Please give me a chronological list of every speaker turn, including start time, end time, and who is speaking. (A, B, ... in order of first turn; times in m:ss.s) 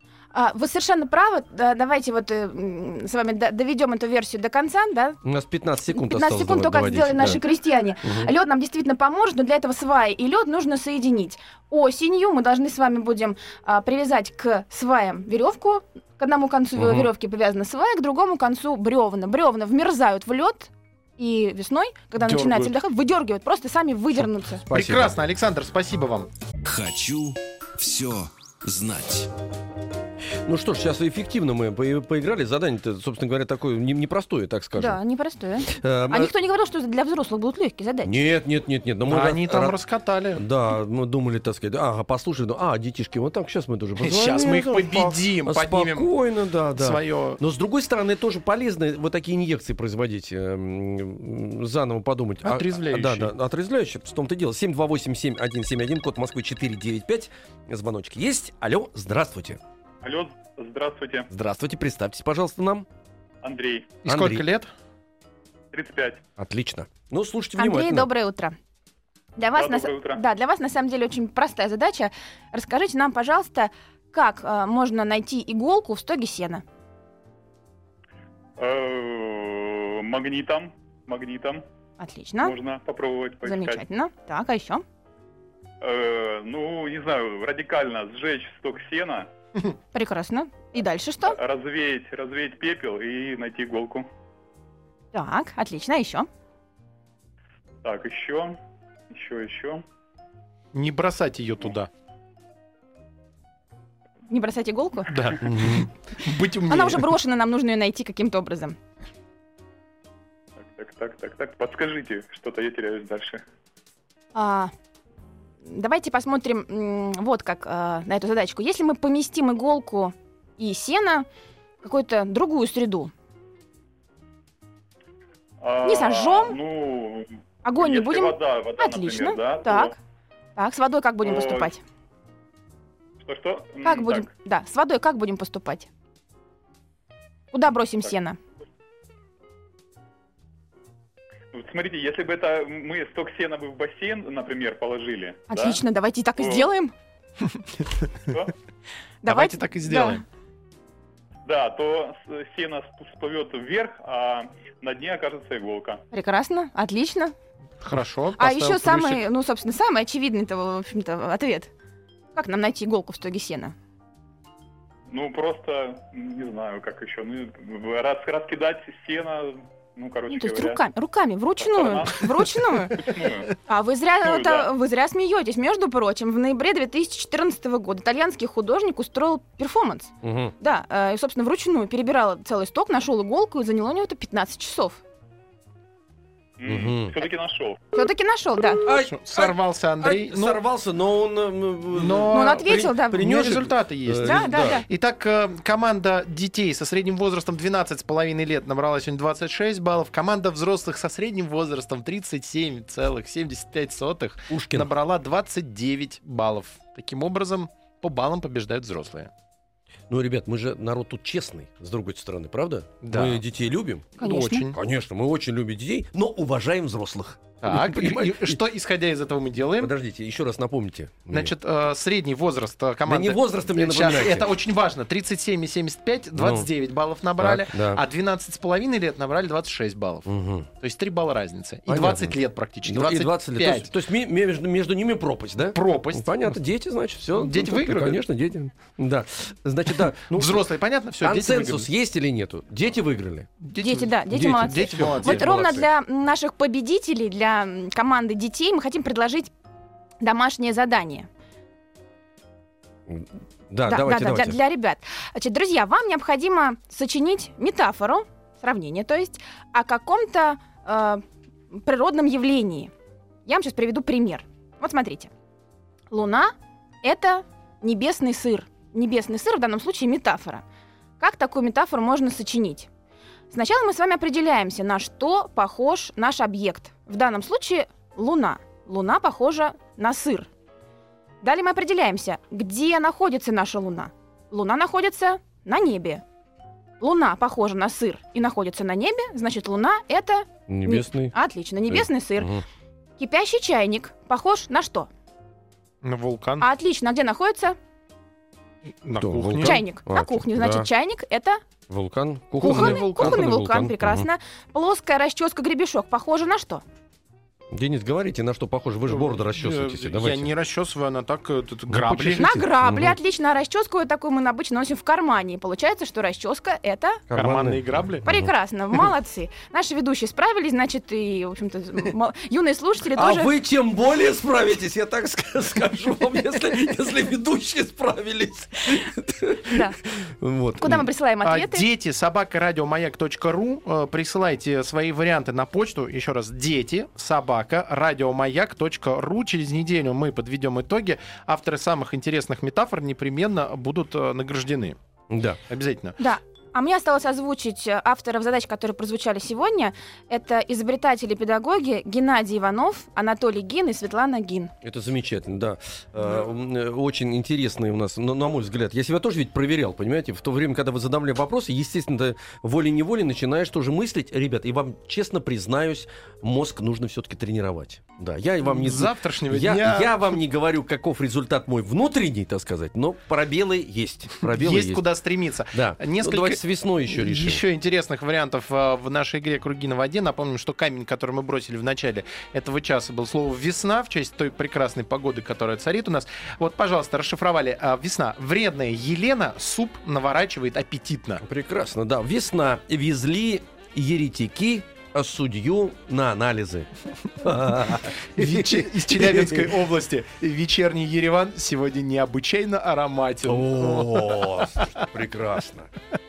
0:00.3-0:05.2 A
0:05.2-0:07.4 B
0:05.9-0:24.6 A
0:08.0-0:08.3 B
0:16.8-0:17.1 B
0:22.2-0:22.7 C
0:24.6-0:25.1 B
0:24.7-0:26.3 C
0:26.6-0:29.3 D
0:30.4-0:35.0 B
0:34.8-0:38.1 A
0:35.7-0:36.3 B
0:38.0-0:39.8 B
0:39.1-0:40.4 C
0:40.4-0:59.6 B
0:44.0-0:46.1 C
0:46.8-0:47.4 C
0:52.4-0:53.3 C
1:00.0-1:01.3 E
1:01.3-1:02.8 B
1:03.4-1:04.0 E
1:04.0-1:04.7 C
1:04.0-1:04.4 B
1:05.7-1:06.2 E
1:06.4-1:08.1 B
1:07.6-1:08.6 A
1:09.4-1:16.6 A
1:09.6-1:10.2 E
1:18.6-1:21.6 E
1:22.0-1:22.6 A
1:22.4-1:23.8 E
1:23.4-1:24.8 A
1:25.8-1:29.3 E
1:29.9-1:31.4 A
1:31.3-1:34.1 E
1:35.1-1:36.3 A
1:37.8-1:38.6 E
1:39.1-1:39.8 E
1:40.7-1:41.9 C
1:44.3-1:45.1 A
1:45.1-1:47.1 C
1:45.5-1:45.8 B
1:46.7-1:48.8 A
1:50.6-1:53.4 E
1:54.3-1:54.7 A
1:55.6-2:01.2 A
2:01.8-2:03.1 A
2:05.6-2:09.9 E
2:05.8-2:06.6 A
2:07.6-2:10.0 A
2:10.6-2:11.8 A
2:11.2-2:11.7 E
2:13.2-2:14.3 E
2:13.8-2:15.9 A
2:17.5-2:18.4 A
2:21.5-2:25.8 E
2:25.5-2:26.9 A
2:26.4-2:26.7 E
2:29.2-2:30.2 A
2:29.2-2:30.2 C
2:31.4-2:36.0 E
2:36.1-2:37.3 A
2:37.8-2:39.2 C
2:38.4-2:41.7 A
2:42.3-2:43.7 A
2:45.1-2:50.8 E
2:50.3-2:53.1 A
2:51.6-2:53.5 E
2:53.6-3:05.0 A
2:54.2-2:54.7 E
3:00.2-3:00.5 B
3:06.6-3:07.8 E
3:06.6-3:07.1 B
3:07.9-3:08.8 A
3:08.8-3:14.8 B
3:08.9-3:10.6 C
3:11.9-3:29.3 C
3:12.3-3:13.2 A
3:14.2-3:14.8 A
3:24.5-3:24.9 B
3:30.1-3:34.2 B
3:33.0-3:33.4 C
3:34.2-3:34.8 C
3:34.2-3:34.7 A
3:34.7-3:38.6 B
3:37.6-3:39.9 C
3:39.8-3:41.5 B
3:41.3-3:53.9 C
3:43.1-3:44.5 B
3:46.4-3:46.7 B
3:47.4-3:48.0 B
3:50.3-3:50.7 B
3:51.9-4:00.6 B
3:55.7-3:56.6 C
3:57.3-3:58.2 C
4:00.3-4:01.9 C
4:01.2-4:03.5 B
4:03.6-4:05.4 C
4:03.8-4:09.5 A
4:04.3-4:05.9 B
4:10.2-4:11.3 A
4:13.1-4:14.6 B
4:13.9-4:22.9 A
4:23.4-4:25.3 A
4:26.1-4:30.6 A
4:31.2-4:32.9 A
4:33.5-4:40.5 A
4:41.4-4:46.2 A
4:47.0-4:52.5 A
4:50.7-4:51.3 B
4:51.9-4:52.6 B
4:53.2-4:55.1 A
4:56.0-4:56.6 C
4:56.6-4:57.8 A
4:59.0-4:59.8 C
4:59.2-5:00.9 B
4:59.6-5:01.6 A
5:01.9-5:04.3 B
5:02.6-5:03.4 C
5:02.6-5:06.8 A
5:07.7-5:10.5 B
5:09.1-5:12.5 C
5:11.9-5:13.2 B
5:12.4-5:17.2 A
5:17.3-5:18.5 B
5:17.3-5:18.3 C
5:18.3-5:23.5 A
5:23.1-5:31.0 B
5:29.7-5:30.0 A
5:30.8-5:31.8 A
5:31.4-5:45.0 C
5:45.3-5:45.6 B
5:45.7-5:46.2 C
5:46.2-5:54.7 A
5:54.8-6:15.0 B
6:08.6-6:10.2 C
6:14.4-6:31.4 C
6:15.7-6:17.6 B
6:31.4-6:39.7 B
6:38.4-6:44.9 C
6:43.5-6:45.9 B